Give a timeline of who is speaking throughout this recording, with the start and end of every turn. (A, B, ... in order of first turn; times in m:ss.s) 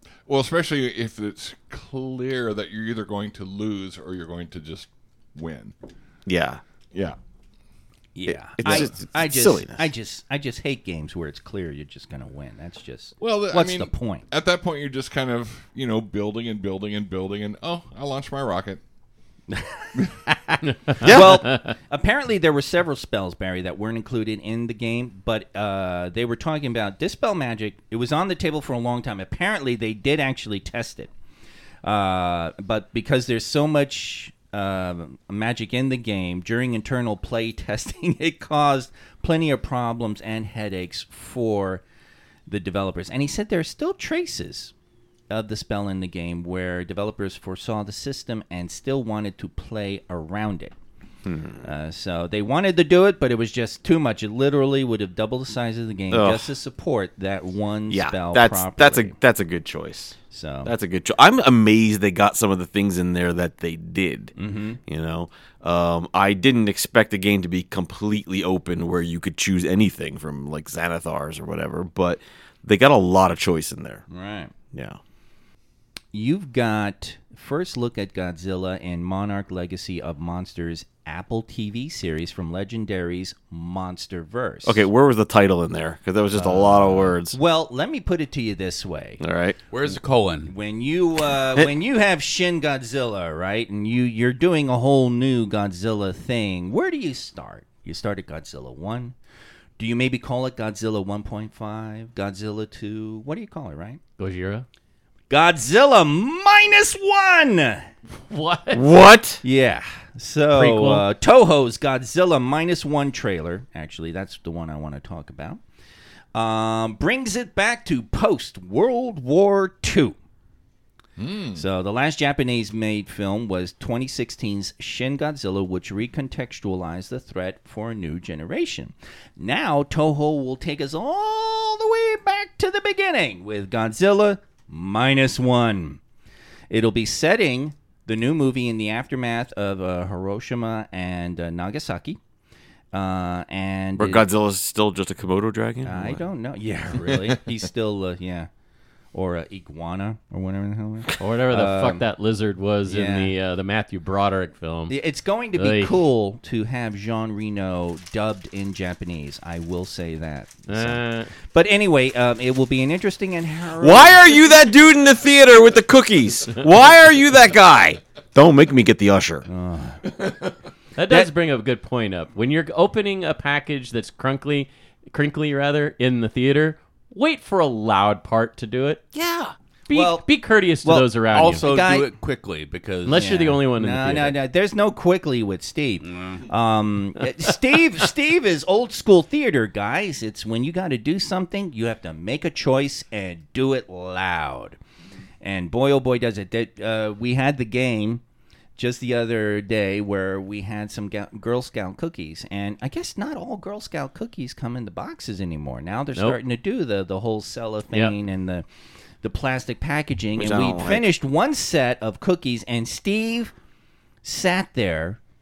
0:00.3-0:05.7 A
0:06.3-0:06.6 B
0:06.9-0:07.2 A
0:08.2-0:14.2 C
0:08.3-0:09.9 B
0:13.2-0:18.8 A
0:19.5-0:31.1 C
0:20.9-0:21.6 D
0:21.0-0:21.4 B
0:31.8-0:41.8 C
0:42.5-0:44.7 C
0:45.3-0:50.8 C
0:51.3-0:51.7 B
0:51.6-0:59.2 C
0:56.1-0:56.5 B
0:57.9-1:04.3 B
1:00.3-1:00.7 C
1:04.4-1:04.8 C
1:04.9-1:14.0 B
1:14.1-1:14.6 C
1:14.7-1:15.0 B
1:16.1-1:24.9 C
1:24.6-1:27.4 B
1:26.4-1:29.2 C
1:29.2-1:29.6 B
1:29.7-1:30.5 E
1:30.5-1:39.2 C
1:39.8-1:44.0 C
1:44.2-1:44.7 D
1:45.3-1:47.9 C
1:48.3-1:48.8 D
1:48.7-1:49.4 B
1:49.4-1:55.6 C
1:50.5-1:51.0 D
1:56.3-2:00.2 C
2:01.2-2:01.6 A
2:01.6-2:16.0 C
2:16.7-2:22.2 C
2:22.9-2:24.3 C
2:24.0-2:26.2 B
2:25.8-2:28.5 C
2:29.1-2:32.0 C
2:31.2-2:35.0 D
2:32.9-2:33.3 C
2:34.9-2:44.4 C
2:35.6-2:36.0 D
2:40.7-2:41.3 D
2:43.8-2:49.5 B
2:49.5-2:50.4 C
2:51.0-2:59.0 D
2:59.1-2:59.5 B
2:59.9-3:01.7 D
2:59.9-3:00.2 C
3:00.8-3:02.1 C
3:01.3-3:03.3 E
3:03.0-3:04.4 D
3:03.1-3:14.8 C
3:06.0-3:06.4 E
3:15.4-3:18.2 C
3:18.8-3:28.6 C
3:29.2-3:33.5 C
3:30.4-3:31.1 B
3:34.2-3:35.2 C